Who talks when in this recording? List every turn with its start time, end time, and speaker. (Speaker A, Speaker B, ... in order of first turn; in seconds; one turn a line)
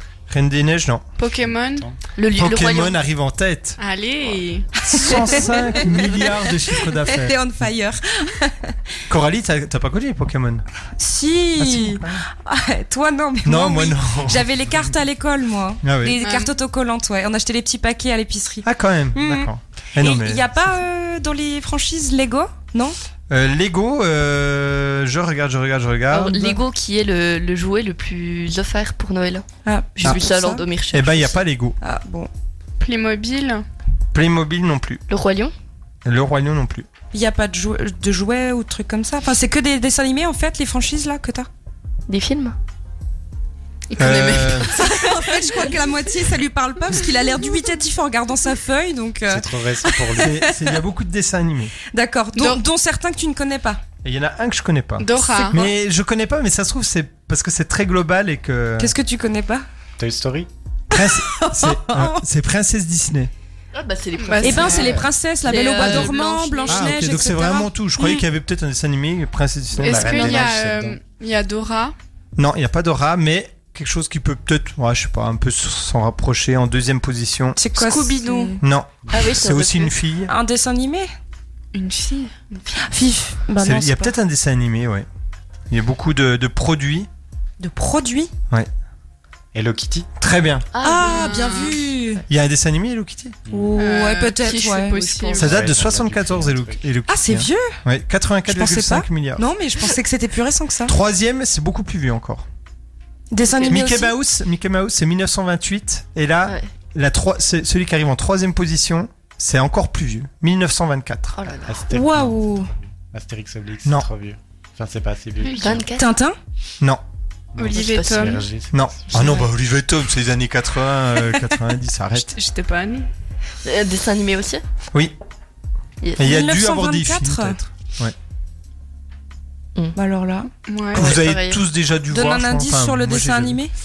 Speaker A: 0.3-1.1
Speaker B: 1.2-1.9
Speaker C: 1.4-2.0
Speaker D: 2.1-3.0
Speaker A: 2.4-3.8
Speaker B: 3.8-5.2
Speaker E: 4.9-8.8
Speaker A: 4.9-7.4
Speaker A: 9.1-10.6
Speaker E: 11.0-23.0
Speaker A: 11.6-12.2
Speaker A: 13.4-14.4
Speaker A: 15.8-16.2
Speaker B: 16.2-16.5
Speaker A: 18.6-20.7
Speaker A: 23.3-26.6
Speaker D: 26.1-31.4
Speaker E: 29.6-30.6
Speaker A: 30.9-31.8
Speaker E: 31.8-32.3
Speaker B: 32.8-33.6
Speaker A: 34.1-35.0
Speaker D: 35.1-35.5
Speaker A: 36.0-36.9
Speaker E: 37.1-41.5
Speaker D: 42.1-42.5
Speaker D: 43.9-45.7
Speaker A: 44.0-44.7
Speaker E: 44.6-50.8
Speaker C: 49.3-50.4
Speaker A: 50.2-51.7
Speaker E: 51.9-53.8
Speaker B: 52.3-52.6
Speaker A: 54.0-58.9
Speaker B: 55.0-55.7
Speaker E: 55.3-55.7
Speaker E: 58.8-59.6
Speaker C: 60.0-60.5
Speaker E: 60.9-62.2
Speaker A: 60.9-63.3
Speaker D: 63.7-67.3
Speaker B: 64.2-65.0
Speaker E: 64.4-67.7
Speaker A: 66.7-70.4
Speaker C: 69.7-71.0
Speaker B: 69.8-71.9
Speaker A: 72.4-77.6
Speaker E: 77.6-78.6
Speaker B: 77.8-78.5
Speaker A: 78.6-80.3
Speaker D: 79.1-80.0
Speaker E: 80.3-81.1
Speaker B: 81.7-82.7
Speaker E: 82.8-84.1
Speaker A: 83.6-85.0
Speaker A: 85.7-87.1
Speaker E: 87.6-88.3
Speaker C: 89.5-90.1
Speaker A: 90.2-90.7
Speaker D: 90.7-91.7
Speaker E: 90.8-92.2
Speaker B: 91.0-91.8
Speaker A: 92.3-93.4
Speaker C: 93.5-93.8
Speaker E: 93.5-95.4
Speaker B: 93.8-95.5
Speaker C: 95.3-96.8
Speaker A: 95.4-99.5
Speaker E: 97.1-97.8
Speaker E: 98.5-100.9
Speaker A: 100.9-102.4
Speaker E: 103.3-104.1
Speaker D: 103.5-103.9
Speaker A: 103.7-111.3
Speaker D: 111.3-111.8
Speaker C: 111.5-115.9
Speaker E: 111.9-112.7
Speaker D: 115.6-116.1
Speaker E: 116.0-116.4
Speaker C: 117.5-119.1
Speaker B: 117.6-118.4
Speaker D: 117.6-118.4
Speaker A: 118.7-122.3
Speaker E: 119.1-119.5
Speaker B: 122.3-123.1
Speaker D: 123.6-124.6
Speaker D: 126.0-126.3
Speaker A: 126.2-128.1
Speaker E: 126.2-127.6
Speaker E: 129.9-130.5
Speaker B: 130.7-131.0
Speaker A: 130.9-133.6
Speaker D: 130.9-131.6
Speaker E: 132.1-133.7